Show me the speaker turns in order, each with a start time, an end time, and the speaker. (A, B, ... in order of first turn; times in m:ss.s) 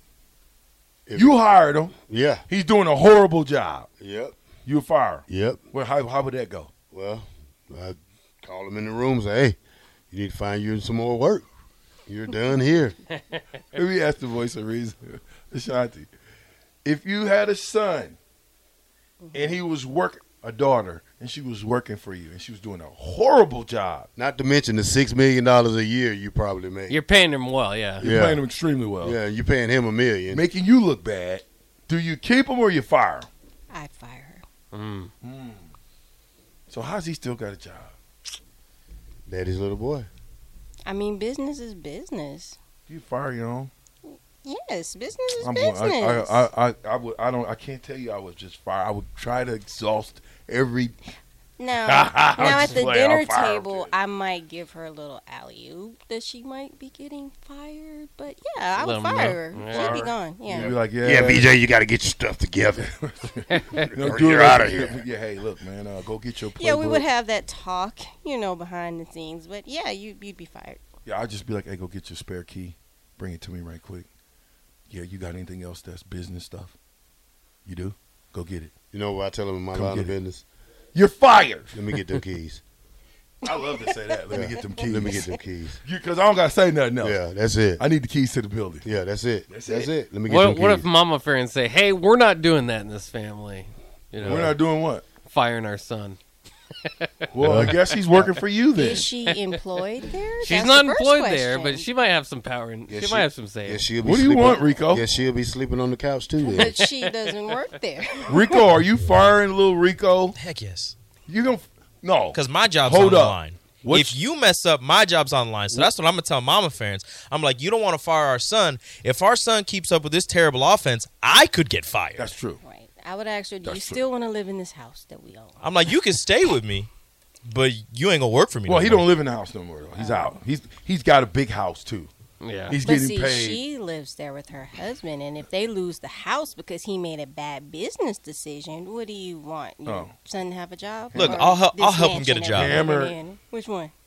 0:01.1-0:01.4 A
0:01.2-0:02.0 B
0:02.0-0:02.5 A
0:02.5-0:03.9 B
0:04.0-0:04.4 A
0:04.6-0:06.7 B
0:05.3-0:05.6 A
0:06.9-0:09.6 A
0:10.1-0:11.5 A
0:12.1-0:13.0 A
0:13.7-0:16.1 B
0:16.8-0:18.2 B
0:19.2-0:19.5 C
0:19.3-0:24.1 B
0:24.2-0:27.0 A
0:26.9-0:28.1 D
0:28.0-0:29.2 B
0:28.0-0:28.4 A
0:29.0-0:30.4 A
0:30.3-0:33.3 B
0:33.7-0:34.4 C
0:34.7-0:35.1 D
0:35.2-0:35.7 B
0:36.7-0:38.0 B
0:39.3-0:40.1 A
0:40.9-0:42.6 C
0:42.9-0:43.7 B
0:44.1-0:46.5 C
0:45.4-0:51.0 B
0:51.6-1:00.8 C
0:51.8-0:53.9 B
0:58.8-1:00.1 D
0:59.7-1:01.6 B
1:00.6-1:02.9 A
1:03.0-1:07.1 B
1:03.7-1:05.0 A
1:06.6-1:10.8 C
1:11.1-1:14.1 B
1:14.9-1:16.8 B
1:17.7-1:18.7 B
1:18.9-1:20.4 A
1:19.7-1:20.1 B
1:20.9-1:21.8 B
1:21.7-1:22.6 A
1:23.4-1:27.2 B
1:24.3-1:25.8 A
1:27.0-1:27.8 A
1:27.8-1:28.9 B
1:28.8-1:30.9 A
1:29.5-1:29.9 B
1:30.3-1:34.6 D
1:34.2-1:34.5 A
1:34.2-1:35.0 B
1:35.2-1:36.2 D
1:37.3-1:39.1 B
1:37.4-1:37.8 A
1:37.5-1:38.3 D
1:38.8-1:41.9 C
1:39.3-1:39.6 D
1:40.4-1:43.8 D
1:42.9-1:46.9 A
1:44.0-1:45.1 B
1:46.4-1:48.6 C
1:48.3-1:50.4 B
1:50.4-1:51.0 E
1:51.3-1:54.2 B
1:52.3-2:02.3 E
2:02.2-2:02.6 B
2:02.6-2:05.6 C
2:03.6-2:04.0 B
2:05.6-2:06.9 E
2:07.4-2:09.1 E
2:08.7-2:12.1 B
2:10.0-2:10.3 C
2:12.4-2:12.8 D
2:12.7-2:13.6 B
2:12.8-2:23.9 C
2:19.8-2:20.1 B
2:21.1-2:21.5 B
2:21.2-2:22.8 E
2:22.5-2:23.2 B